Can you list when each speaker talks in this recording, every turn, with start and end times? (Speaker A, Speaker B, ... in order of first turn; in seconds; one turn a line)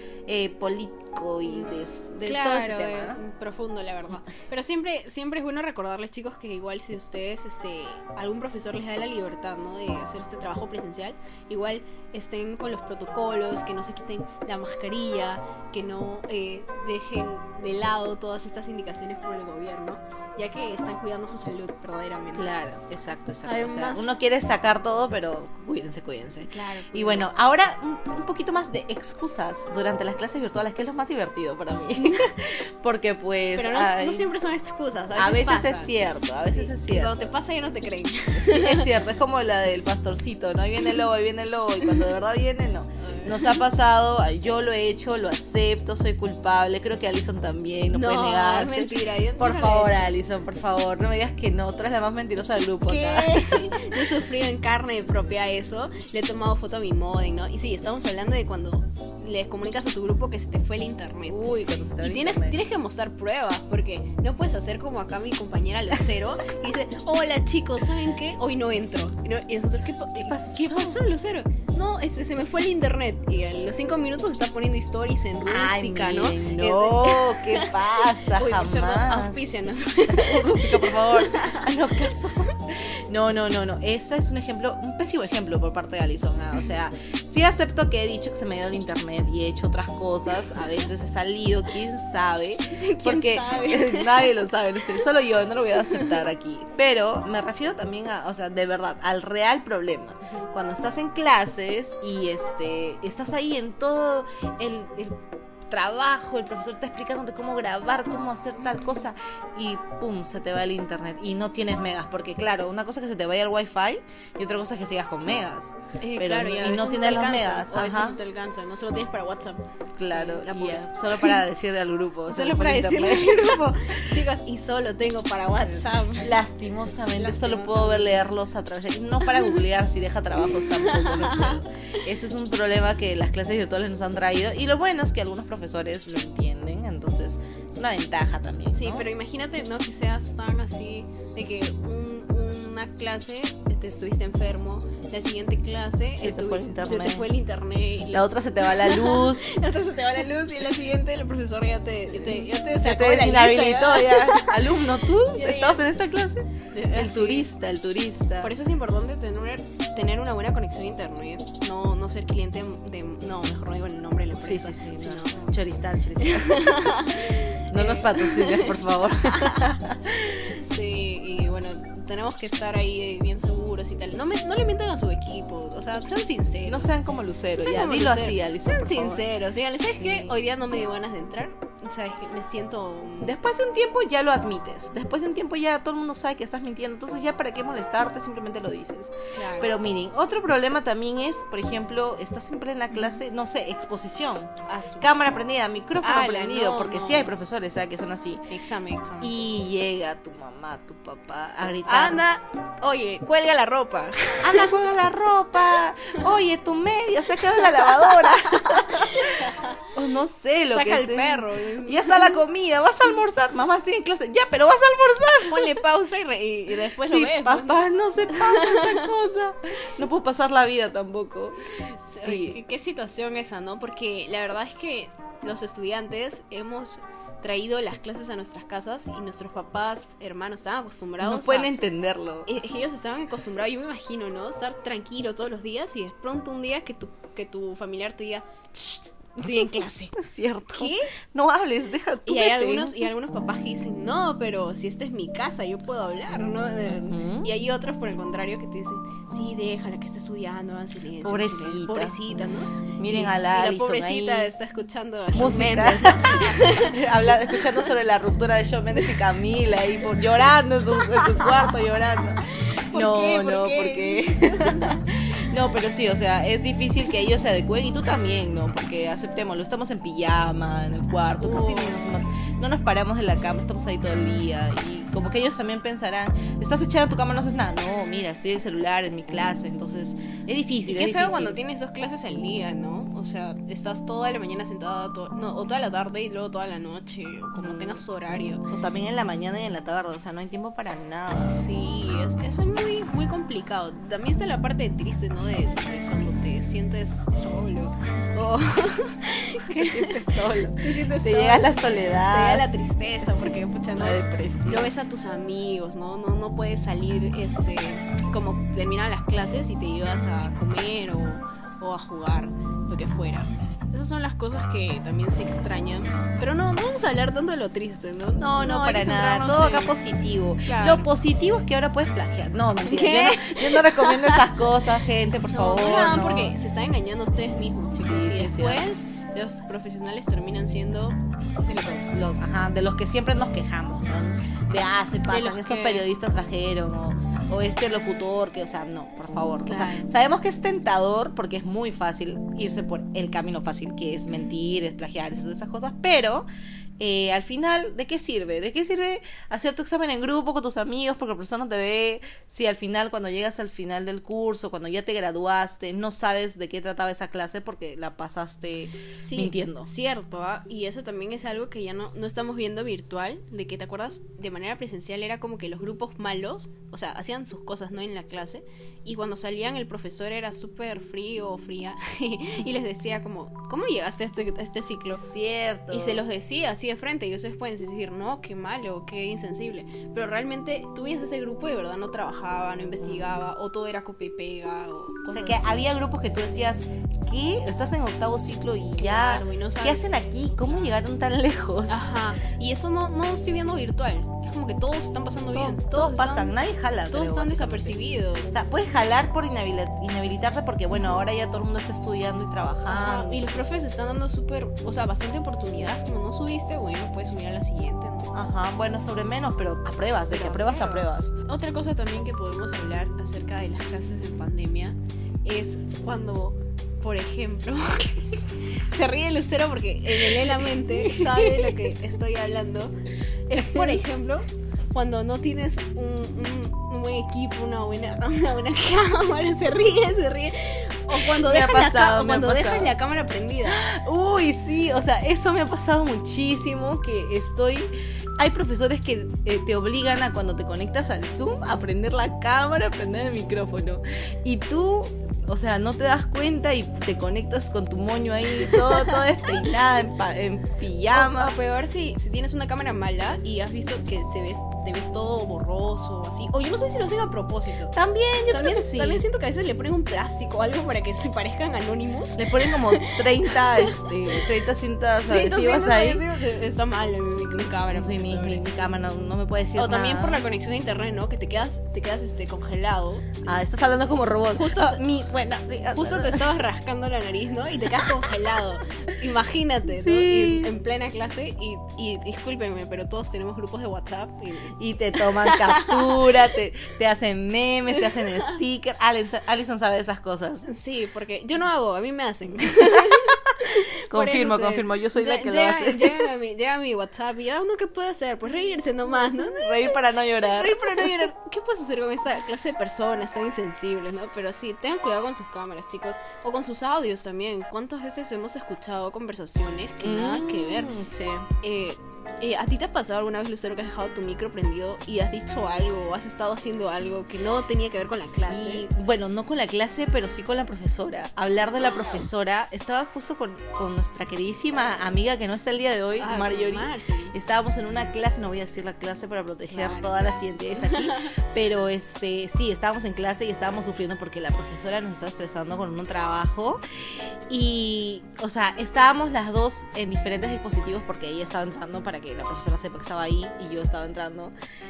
Speaker A: 0.3-3.2
Speaker B: 2.2-22.5
Speaker A: 22.3-34.2
Speaker B: 23.4-24.1
Speaker B: 26.5-27.2
Speaker B: 33.5-35.9
Speaker A: 35.1-37.2
Speaker B: 36.5-38.9
Speaker A: 38.4-53.9
Speaker B: 43.0-43.6
Speaker B: 47.9-50.1
Speaker B: 52.9-77.7
Speaker A: 61.3-62.6
Speaker A: 70.2-71.0
Speaker A: 75.4-79.4
Speaker B: 78.2-81.6
Speaker A: 80.0-118.2
Speaker B: 92.8-94.3
Speaker B: 95.9-96.2
Speaker B: 116.0-121.4
Speaker A: 120.0-123.7
Speaker B: 122.3-126.3
Speaker A: 125.7-139.1
Speaker B: 127.2-128.2
Speaker B: 129.3-129.6
Speaker B: 130.5-132.0
Speaker B: 138.7-155.8
Speaker A: 146.2-147.3
Speaker A: 148.1-149.4
Speaker A: 152.2-158.5
Speaker B: 156.7-157.5
Speaker B: 158.4-165.6
Speaker A: 164.4-170.0
Speaker B: 166.2-176.9
Speaker A: 176.6-179.2
Speaker B: 177.6-183.4
Speaker A: 179.9-180.3
Speaker A: 183.2-198.4
Speaker B: 189.3-189.7
Speaker B: 192.9-193.2
Speaker B: 194.7-195.1
Speaker B: 196.0-197.3
Speaker B: 198.5-199.4
Speaker A: 199.2-202.2
Speaker B: 201.8-204.7
Speaker A: 204.4-215.8
Speaker B: 207.5-209.7
Speaker B: 210.7-212.4
Speaker B: 215.5-219.1
Speaker A: 217.0-221.6
Speaker B: 221.8-231.7
Speaker A: 222.1-222.6
Speaker A: 231.2-232.5
Speaker B: 232.4-240.1
Speaker A: 240.1-243.1
Speaker B: 240.7-241.1
Speaker B: 242.3-256.9
Speaker A: 246.8-247.5
Speaker A: 251.2-252.2
Speaker A: 253.0-254.5
Speaker A: 255.3-281.6
Speaker B: 261.0-261.7
Speaker B: 262.6-264.9
Speaker B: 271.4-272.1
Speaker B: 280.9-288.6
Speaker A: 287.6-288.0
Speaker A: 288.7-291.6
Speaker B: 291.5-319.9
Speaker A: 299.7-302.7
Speaker A: 303.9-304.9
Speaker A: 318.4-326.5
Speaker B: 320.6-321.1
Speaker B: 322.8-324.5
Speaker B: 325.5-332.0
Speaker A: 328.0-328.8
Speaker A: 331.8-346.5
Speaker B: 335.3-336.0
Speaker B: 339.6-340.1
Speaker A: 347.0-359.9
Speaker B: 359.2-375.2
Speaker A: 375.1-376.2
Speaker B: 375.9-385.9
Speaker A: 385.3-392.1
Speaker B: 389.0-390.9
Speaker B: 391.9-396.5
Speaker A: 395.5-398.0
Speaker B: 397.1-398.5
Speaker A: 398.5-403.7
Speaker B: 402.9-408.3
Speaker A: 408.3-411.3
Speaker B: 410.3-433.8
Speaker A: 420.3-421.7
Speaker A: 423.5-424.0
Speaker A: 431.1-432.9
Speaker A: 433.6-451.5
Speaker B: 451.1-457.9
Speaker A: 457.9-459.2
Speaker B: 458.5-464.4
Speaker A: 462.4-466.2
Speaker B: 465.3-468.6
Speaker A: 467.9-470.4
Speaker B: 469.8-473.4
Speaker A: 473.4-476.6
Speaker B: 474.5-475.0
Speaker B: 475.9-486.2
Speaker A: 480.0-480.7
Speaker A: 484.8-490.7
Speaker B: 488.0-488.5
Speaker B: 490.7-499.9
Speaker A: 493.1-496.2
Speaker A: 499.5-501.2
Speaker B: 500.5-510.9
Speaker A: 510.0-511.5
Speaker B: 511.6-518.9
Speaker A: 518.2-536.8
Speaker B: 526.2-527.3
Speaker B: 529.7-531.3
Speaker A: 537.5-544.5